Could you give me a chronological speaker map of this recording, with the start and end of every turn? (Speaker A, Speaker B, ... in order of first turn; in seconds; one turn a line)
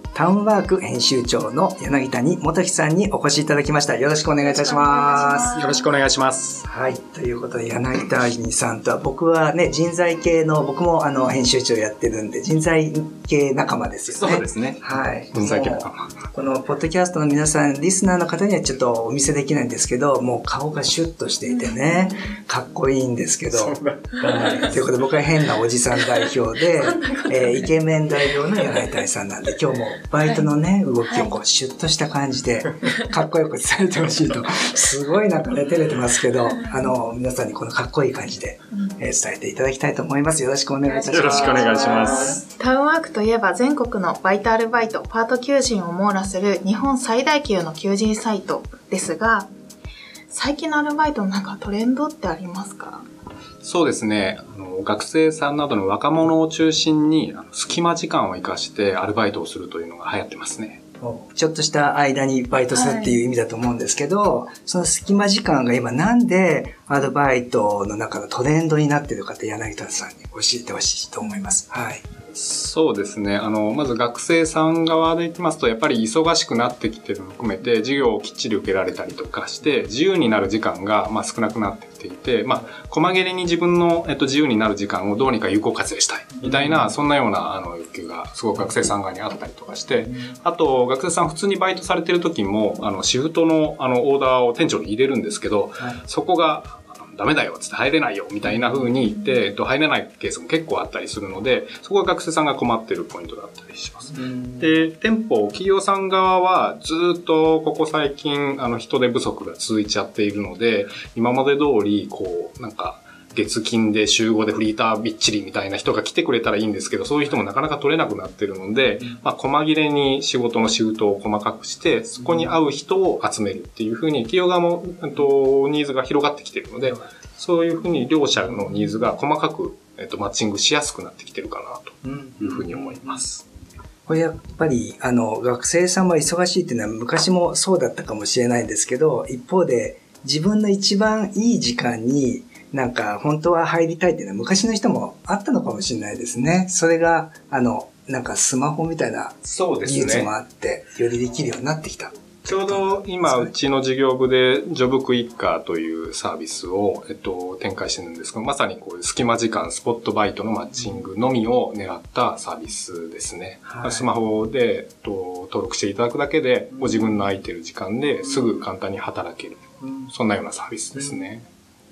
Speaker A: 0.1-5.6
Speaker B: 4.4-5.9
Speaker C: 5.5-6.6
Speaker A: 6.6-42.4
Speaker C: 14.1-14.8
Speaker C: 15.3-16.2
Speaker B: 21.5-22.4
Speaker C: 23.5-24.8
Speaker B: 24.2-24.6
Speaker B: 26.7-28.4
Speaker B: 30.2-30.5
Speaker B: 31.0-31.4
Speaker B: 32.8-33.1
Speaker B: 36.5-36.9
Speaker B: 40.8-49.5
Speaker C: 41.1-42.4
Speaker B: 50.3-53.0
Speaker C: 53.6-60.8
Speaker A: 61.0-72.0
Speaker B: 62.7-63.2
Speaker B: 71.2-71.5
Speaker C: 72.3-133.4
Speaker A: 86.4-86.9
Speaker A: 98.4-98.9
Speaker A: 104.1-104.8
Speaker A: 122.2-122.6
Speaker A: 132.0-133.2
Speaker A: 134.1-153.5
Speaker C: 149.4-150.3
Speaker C: 152.4-171.4
Speaker A: 163.7-164.1
Speaker A: 166.7-167.2
Speaker A: 169.8-170.1